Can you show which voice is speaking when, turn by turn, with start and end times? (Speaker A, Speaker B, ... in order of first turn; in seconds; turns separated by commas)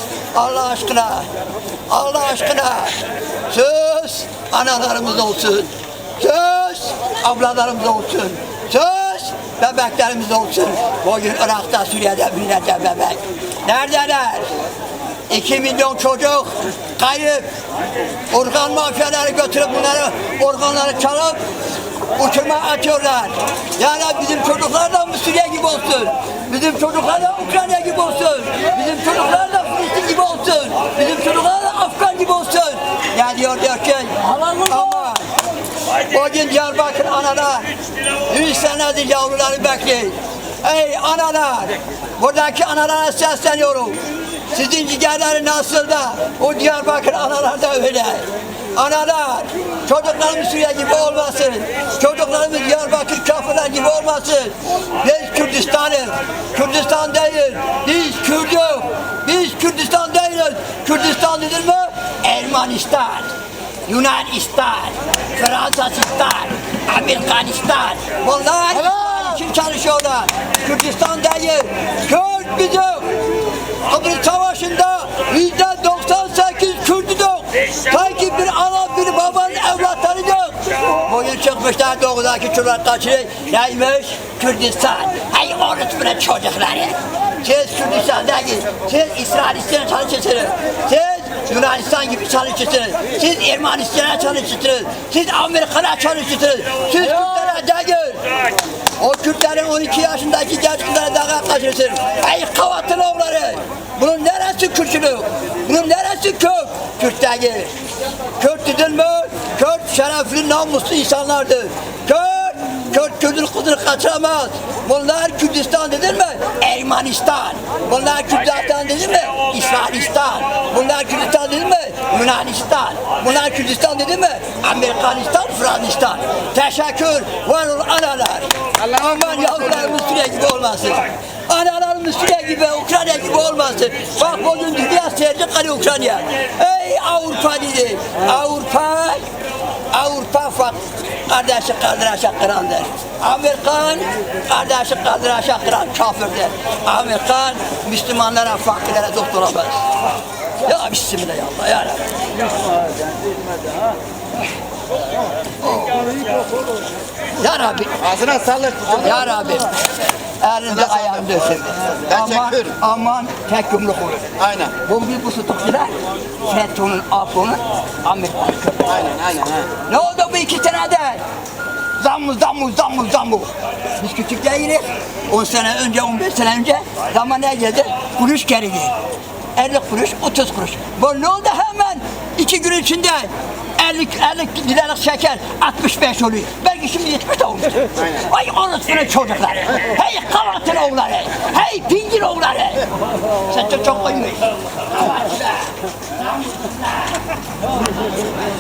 Speaker A: 0.3-1.3, Speaker A: 1.9-3.0, Speaker A: 3.5-14.5, Speaker A: 15.3-17.5, Speaker A: 18.3-21.4, Speaker A: 22.1-35.2, Speaker B: 34.4-34.7, Speaker A: 36.1-44.0, Speaker A: 44.5-63.3, Speaker A: 63.9-73.2, Speaker A: 73.9-98.2, Speaker A: 99.0-107.7, Speaker A: 108.4-139.2, Speaker A: 139.9-149.9, Speaker A: 150.6-152.0, Speaker A: 155.6-156.1, Speaker A: 157.4-158.1, Speaker B: 158.1-159.0, Speaker A: 158.9-159.7, Speaker A: 160.4-164.2, Speaker B: 164.4-164.7, Speaker A: 164.8-169.1, Speaker B: 169.1-169.7, Speaker A: 169.9-171.2, Speaker A: 172.0-179.0, Speaker A: 179.6-192.9, Speaker A: 193.4-197.2